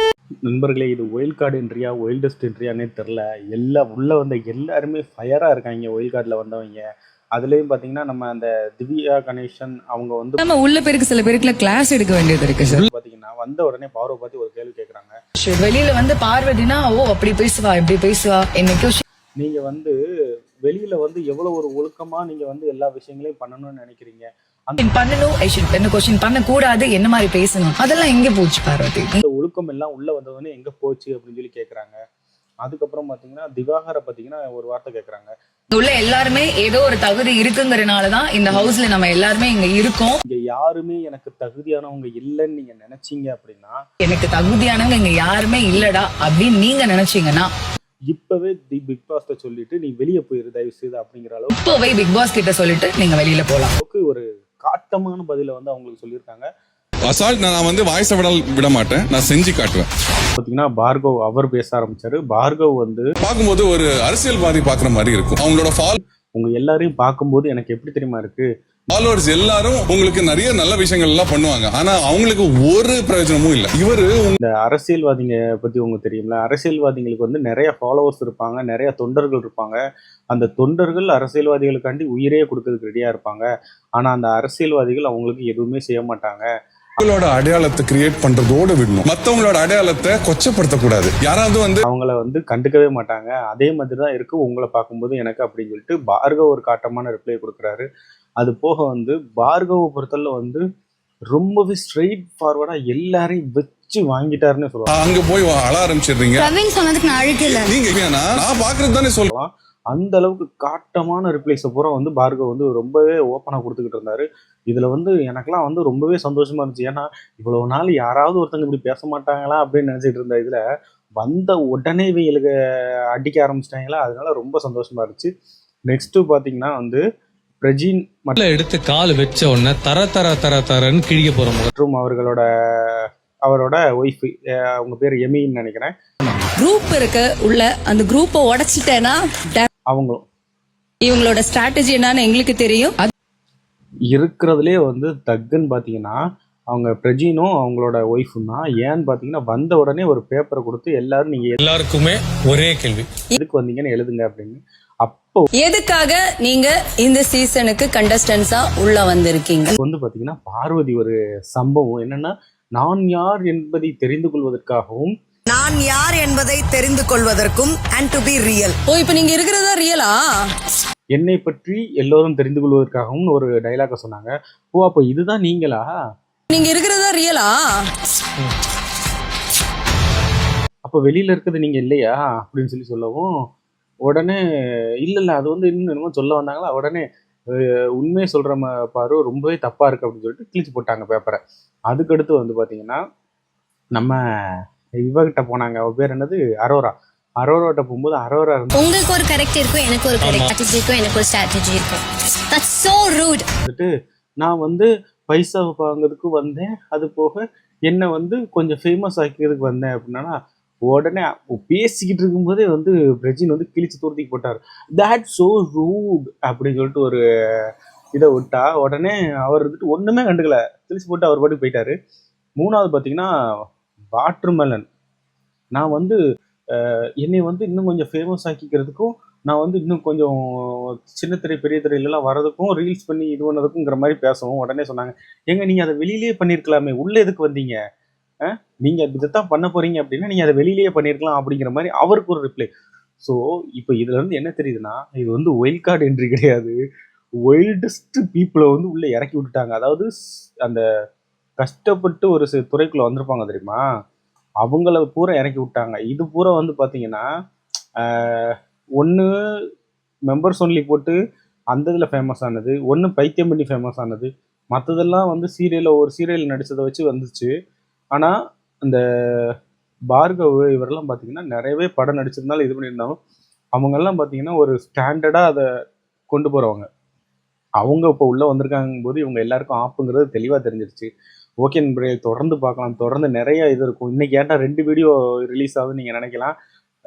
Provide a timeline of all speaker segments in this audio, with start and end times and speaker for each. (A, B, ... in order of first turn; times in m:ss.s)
0:00.4-0:10.4 A
0:10.4-0:12.8 B
0:12.6-0:15.2 A
0:15.4-0:19.0 B
0:19.4-0:20.0 A
0:20.6-0:24.8 A
0:24.8-0:29.2 B
0:29.2-0:32.0 A
0:32.6-0:35.3 A
0:35.7-0:40.2 B
0:38.5-0:38.7 A
0:40.2-0:43.8 A
0:44.0-0:47.5 B
0:48.1-0:51.8 A
0:51.6-0:53.7 B
0:53.8-0:56.5 A
0:57.0-0:59.9 C
1:00.4-1:03.1 A
1:03.2-1:06.0 C
1:06.3-1:08.5 A
1:08.9-1:14.4 C
1:14.4-1:26.5 A
1:27.0-1:31.8 C
1:31.8-1:37.9 A
1:38.4-1:40.6 A
1:41.3-1:44.9 A
1:44.9-1:46.5 C
1:46.4-1:47.7 D
1:47.4-1:49.2 C
1:49.2-2:00.6 A
2:01.2-2:02.5 A
2:03.1-2:05.3 A
2:05.9-2:07.0 A
2:07.6-2:08.4 A
2:08.4-2:11.7 E
2:11.7-2:15.9 A
2:16.6-2:19.6 F
2:19.9-2:20.2 A
2:21.0-2:23.0 F
2:24.1-2:31.6 A
2:31.6-2:33.1 E
2:33.4-2:35.5 A
2:35.6-2:39.7 F
2:39.8-2:45.1 A
2:45.5-2:48.8 G
2:48.9-2:50.5 F
2:51.1-2:55.9 A
2:56.5-2:57.8 F
3:00.8-3:03.4 A
3:04.0-3:04.4 A
3:05.0-3:13.0 A
3:15.0-3:18.8 A
3:18.7-3:23.4 D
3:20.2-3:20.5 E
3:24.4-3:41.9 A
3:42.6-3:43.3 A
3:44.1-3:44.8 A
3:45.7-3:46.2 A
3:46.7-3:57.8 A
3:58.5-4:02.7 A
4:03.2-4:06.8 A
4:07.4-4:10.1 A
4:11.6-4:13.8 A
4:14.6-4:17.3 A
4:18.0-4:19.3 A
4:20.3-4:21.2 A
4:21.7-4:27.5 A
4:28.8-4:29.5 A
4:30.1-4:33.2 A
4:33.7-4:35.7 A
4:36.3-4:36.8 A
4:37.8-4:41.1 A
4:41.6-4:46.5 A